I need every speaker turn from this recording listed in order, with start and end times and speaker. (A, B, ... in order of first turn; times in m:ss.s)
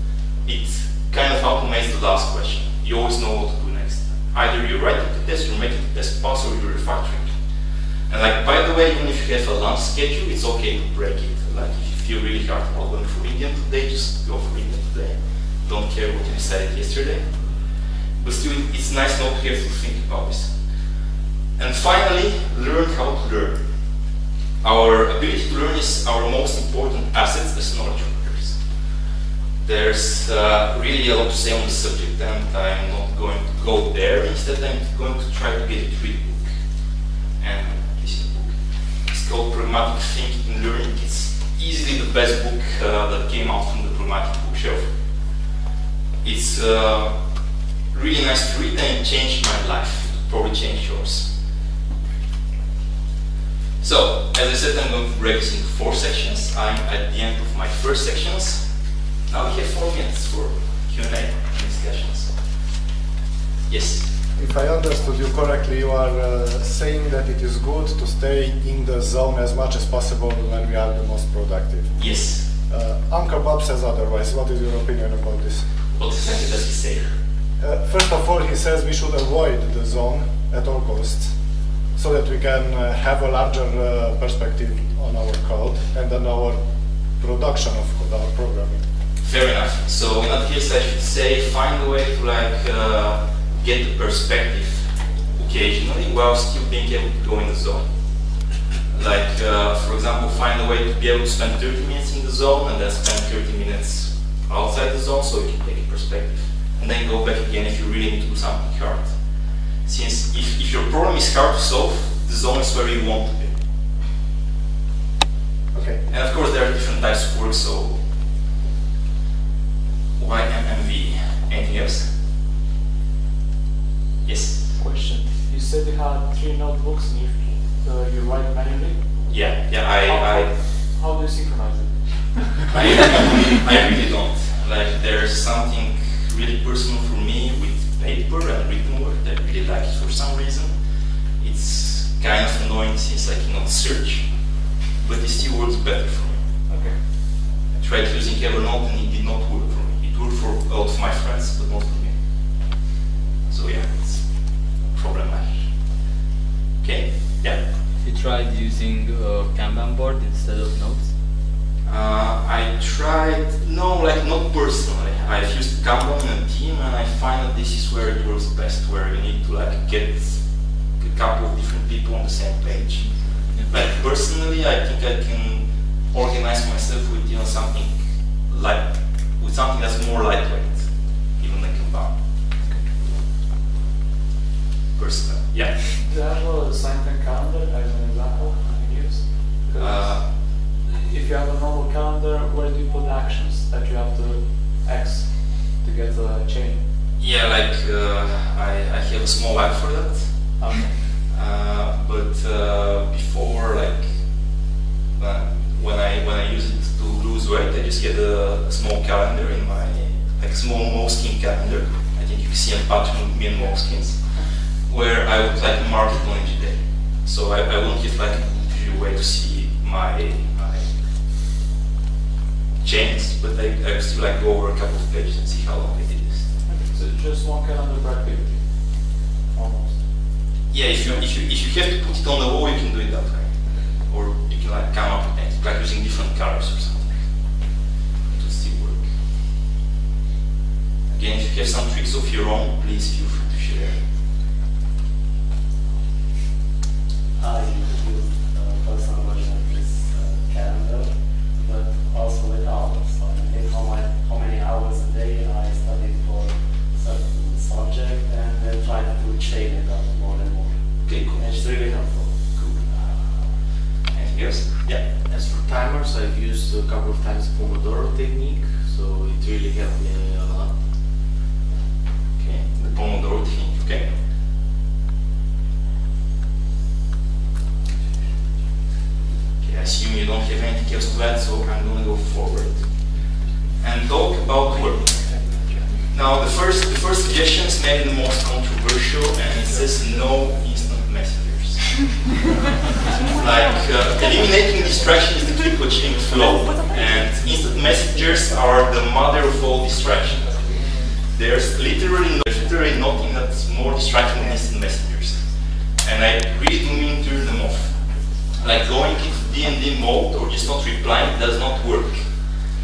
0:00.4-0:07.3 A
0:08.1-0:17.3 A
0:18.2-0:20.5 A
0:21.6-0:23.6 A
0:24.6-0:28.6 A
0:29.6-0:36.5 A
0:37.4-0:38.6 A
0:39.1-0:44.9 A
0:46.2-0:47.1 A
0:47.9-0:51.3 A
0:53.8-0:58.6 A
0:59.3-1:02.3 A
1:03.7-1:04.1 A
1:04.4-1:11.9 B
1:12.0-1:12.4 A
1:12.7-1:15.6 B
1:16.0-1:17.1 A
1:17.6-1:21.3 B
1:22.0-1:26.6 B
1:27.2-1:28.8 B
1:29.2-1:34.9 A
1:35.4-1:37.9 A
1:38.9-1:49.1 A
1:49.8-1:53.6 A
1:55.7-1:56.0 B
1:56.1-1:57.9 A
2:00.2-2:02.1 A
2:04.2-2:04.7 A
2:04.8-2:13.4 C
2:09.3-2:10.5 A
2:12.7-2:20.7 A
2:21.4-2:24.2 A
2:25.0-2:26.4 A
2:26.7-2:27.0 C
2:27.8-2:32.2 A
2:33.5-2:34.4 A
2:34.9-2:35.6 A
2:36.8-2:37.6 A
2:38.0-2:41.1 D
2:41.9-2:50.4 A
2:51.0-2:53.1 A
2:53.7-2:57.9 A
2:58.5-2:58.8 A
2:59.4-3:00.9 A
3:01.4-3:02.1 A
3:05.0-3:05.8 A
3:05.9-3:16.9 C
3:09.8-3:10.2 A
3:17.2-3:20.3 A
3:20.6-3:21.0 C
3:21.3-3:24.1 A
3:25.2-3:34.2 A
3:34.9-3:40.9 A
3:42.8-3:46.4 A
3:46.7-3:50.0 C
3:50.7-3:53.5 A
3:51.0-3:51.3 C
3:54.1-3:57.2 A
3:58.3-3:59.1 A
4:01.1-4:04.0 A
4:07.4-4:20.7 E
4:21.0-4:21.5 A
4:21.3-4:22.3 E
4:24.1-4:25.0 A
4:25.3-4:30.7 F
4:32.4-4:34.1 A
4:39.6-4:42.8 A
4:43.8-4:45.1 A
4:46.1-4:52.0 A
4:53.3-5:00.6 A
5:00.5-5:00.8 C
5:01.3-5:05.4 A
5:06.0-5:07.9 A
5:08.6-5:12.2 A